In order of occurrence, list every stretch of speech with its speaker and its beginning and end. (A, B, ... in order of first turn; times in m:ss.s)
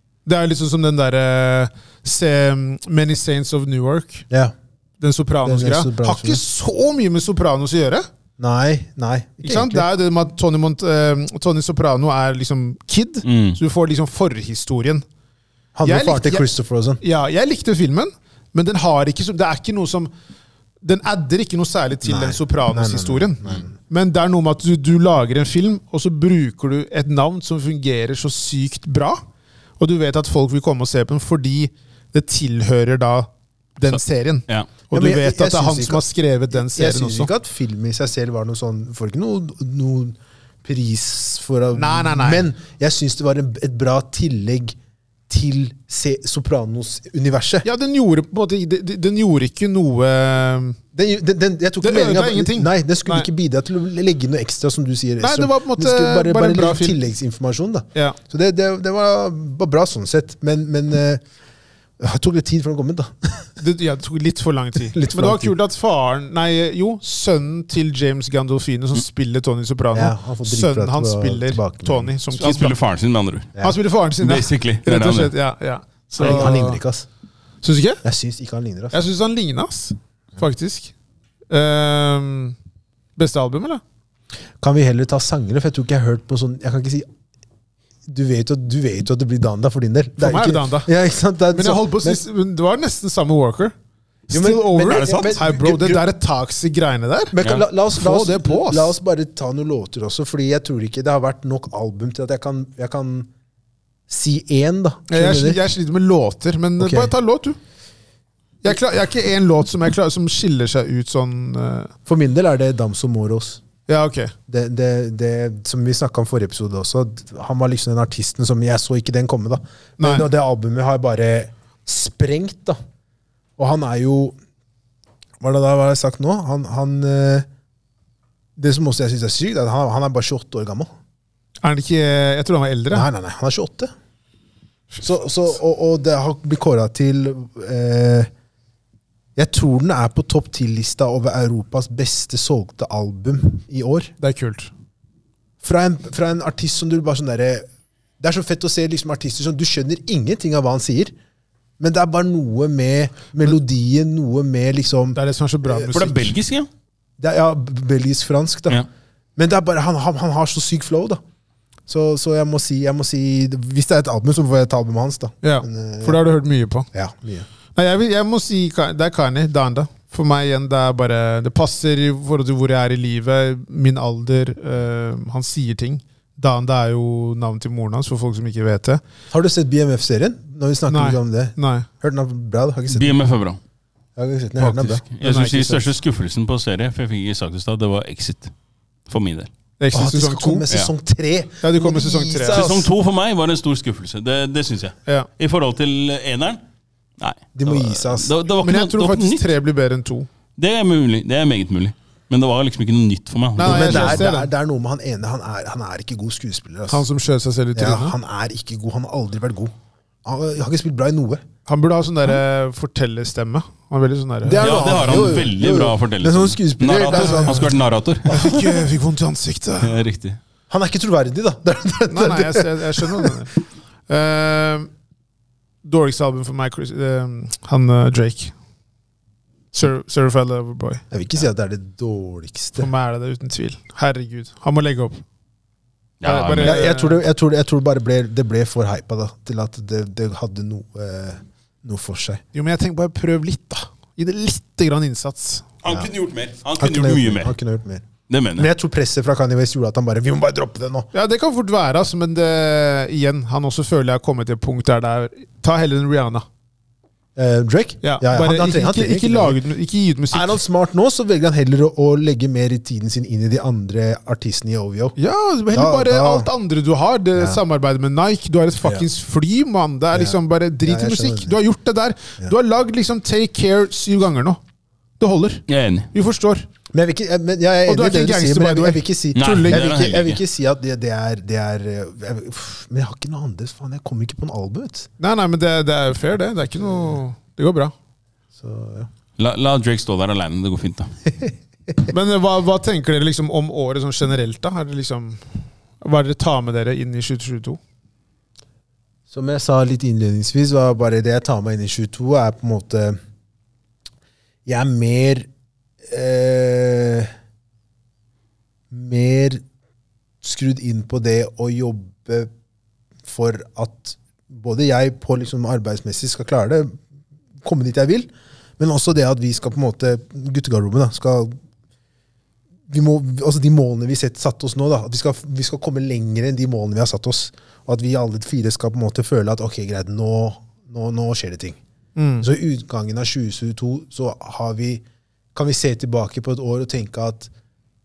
0:00.3-0:04.3 A
0:05.0-0:08.1 A
0:05.4-0:06.4 B
0:08.4-0:09.9 B
0:09.4-0:15.0 A
0:13.2-0:13.6 C
0:15.8-0:17.0 B
0:15.8-0:16.5 A
0:17.0-0:20.1 A
0:20.8-0:29.2 A
0:22.0-0:23.7 B
0:29.8-0:37.3 A
0:33.9-0:34.7 C
0:34.9-0:44.8 B
0:41.7-0:42.5 A
0:45.3-0:47.7 B
0:47.6-0:50.8 A
0:50.9-1:01.2 B
0:51.8-0:53.3 A
0:55.2-0:57.0 A
1:02.0-1:03.6 B
1:03.6-1:12.8 A
1:04.9-1:05.6 B
1:09.9-1:12.2 B
1:12.3-1:13.5 C
1:13.6-1:16.8 A
1:14.2-1:15.3 C
1:16.2-1:16.5 C
1:16.2-1:17.1 B
1:17.6-1:18.0 A
1:18.0-1:19.0 B
1:18.9-1:20.9 A
1:21.5-1:22.6 A
1:23.2-1:23.8 A
1:24.6-1:27.1 B
1:28.1-1:32.2 B
1:30.2-1:30.9 A
1:31.5-1:33.7 A
1:34.3-1:37.4 A
1:34.3-1:36.1 B
1:34.8-1:35.4 C
1:37.3-1:43.3 B
1:38.0-1:38.9 A
1:44.1-1:45.6 B
1:45.1-1:47.6 A
1:46.8-1:47.1 B
1:48.6-1:51.9 A
1:52.1-1:53.6 B
1:53.9-1:54.3 A
1:54.5-2:02.8 B
2:00.0-2:00.3 A
2:03.6-2:04.4 B
2:05.4-2:07.5 B
2:08.6-2:10.9 B
2:11.6-2:13.1 A
2:12.9-2:13.9 B
2:15.0-2:18.3 B
2:19.4-2:24.1 B
2:24.2-2:24.7 A
2:25.6-2:27.7 B
2:28.2-2:31.1 B
2:31.8-2:36.0 B
2:35.2-2:36.3 A
2:35.9-2:36.7 C
2:37.2-2:38.8 B
2:39.4-2:41.2 B
2:41.9-2:46.2 B
2:45.4-2:46.9 A
2:46.9-2:47.5 B
2:47.8-2:59.0 A
2:59.3-3:03.2 B
3:00.9-3:01.9 A
3:02.9-3:03.6 C
3:04.2-3:05.0 B
3:04.6-3:08.5 C
3:05.2-3:05.9 A
3:09.1-3:09.5 C
3:09.8-3:10.7 A
3:09.9-3:12.9 B
3:11.6-3:12.8 A
3:12.5-3:16.6 C
3:17.2-3:19.5 C
3:17.6-3:18.3 B
3:18.6-3:20.3 A
3:20.6-3:24.3 C
3:23.6-3:24.5 A
3:23.6-3:27.0 B
3:26.9-3:28.2 A
3:27.7-3:29.7 B
3:30.2-3:31.5 B
3:31.7-3:34.8 A
3:34.4-3:37.7 B
3:34.6-3:38.4 C
3:37.1-3:37.6 A
3:38.3-3:38.9 B
3:38.3-3:40.0 A
3:39.8-3:40.4 C
3:40.7-3:43.5 B
3:42.1-3:43.5 A
3:44.1-3:44.9 A
3:45.8-3:48.5 A
3:49.7-3:51.0 A
3:51.1-3:52.9 B
3:52.8-3:55.2 A
3:56.2-3:56.8 C
3:56.2-3:57.2 A
3:56.6-4:02.4 B
4:02.5-4:05.7 A
4:05.8-4:07.5 C
4:06.8-4:08.0 B
4:08.3-4:08.7 C
4:08.6-4:11.1 B
4:11.1-4:16.5 A
4:17.4-4:19.6 B
4:18.0-4:20.6 A
4:20.3-4:25.2 B
4:25.2-4:34.6 A
4:25.7-4:26.5 B
4:27.4-4:27.6 B
4:30.1-4:31.6 B
4:35.2-4:36.7 A
4:35.7-4:36.1 C
4:36.9-4:45.1 B
4:37.9-4:39.8 A
4:39.4-4:40.4 C
4:45.2-4:47.9 A
4:46.8-4:47.1 B
4:48.6-4:49.1 B
4:49.4-4:51.1 C
4:52.1-4:55.4 A
4:56.0-4:57.8 A
4:59.3-5:03.2 B
5:04.7-5:05.5 B
5:06.1-5:07.3 B
5:08.9-5:09.6 B
5:10.4-5:12.5 B
5:13.2-5:17.0 B
5:17.6-5:21.6 B
5:22.9-5:31.8 B
5:32.2-5:32.5 A
5:32.4-5:35.0 B
5:35.6-5:37.5 B